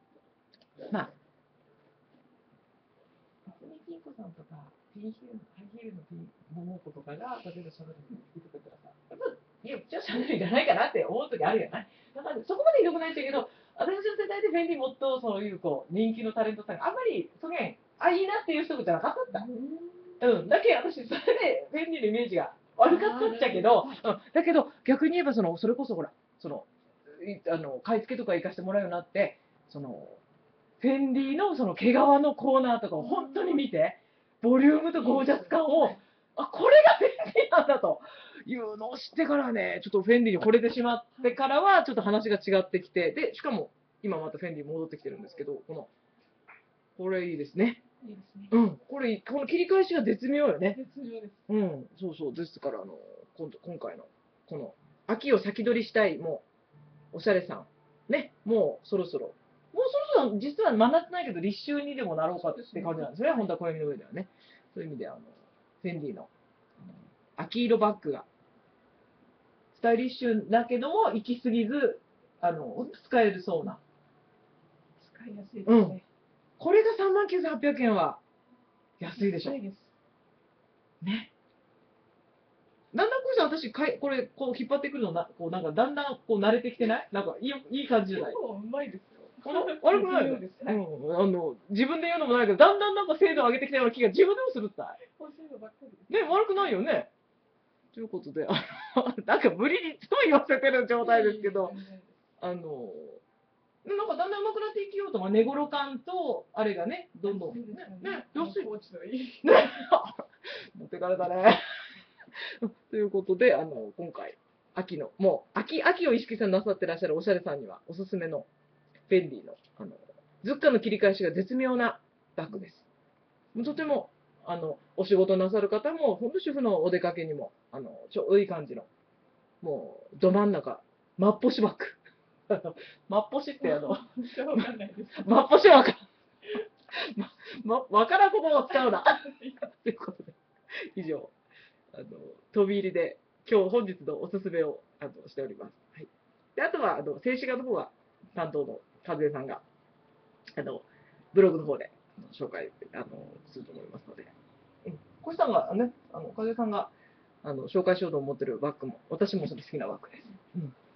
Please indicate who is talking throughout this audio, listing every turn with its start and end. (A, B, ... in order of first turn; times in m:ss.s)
0:03.4-0:19.4 A
0:19.3-0:20.2 B
0:20.2-0:30.2 A
0:22.8-0:23.9 B
0:30.8-0:45.9 A
0:33.0-0:33.6 B
0:34.9-0:35.9 B
0:47.0-0:47.8 A
0:48.0-0:48.5 B
0:48.5-0:50.8 A
0:50.7-0:51.5 B
0:51.5-0:56.5 A
0:57.1-1:08.3 A
1:02.4-1:03.1 B
1:09.7-1:13.8 A
1:15.0-1:16.0 B
1:15.6-1:16.0 A
1:16.6-1:18.2 A
1:19.0-1:19.6 A
1:19.1-1:19.9 B
1:21.0-1:21.3 A
1:22.9-1:28.4 A
1:28.1-1:30.8 B
1:29.4-1:35.0 A
1:35.1-1:36.8 B
1:36.1-1:37.1 A
1:37.9-1:41.7 A
1:41.0-1:42.2 B
1:42.4-1:43.2 A
1:43.8-1:48.7 A
1:47.2-1:49.7 B
1:49.4-1:51.6 A
1:52.4-1:58.5 A
1:59.1-2:02.9 A
2:03.5-2:08.9 A
2:09.6-2:16.1 A
2:13.6-2:15.3 B
2:16.9-2:20.4 A
2:18.7-2:19.6 B
2:20.9-2:21.3 A
2:21.9-2:29.6 A
2:30.5-2:34.3 A
2:34.8-2:36.9 A
2:37.4-2:40.7 A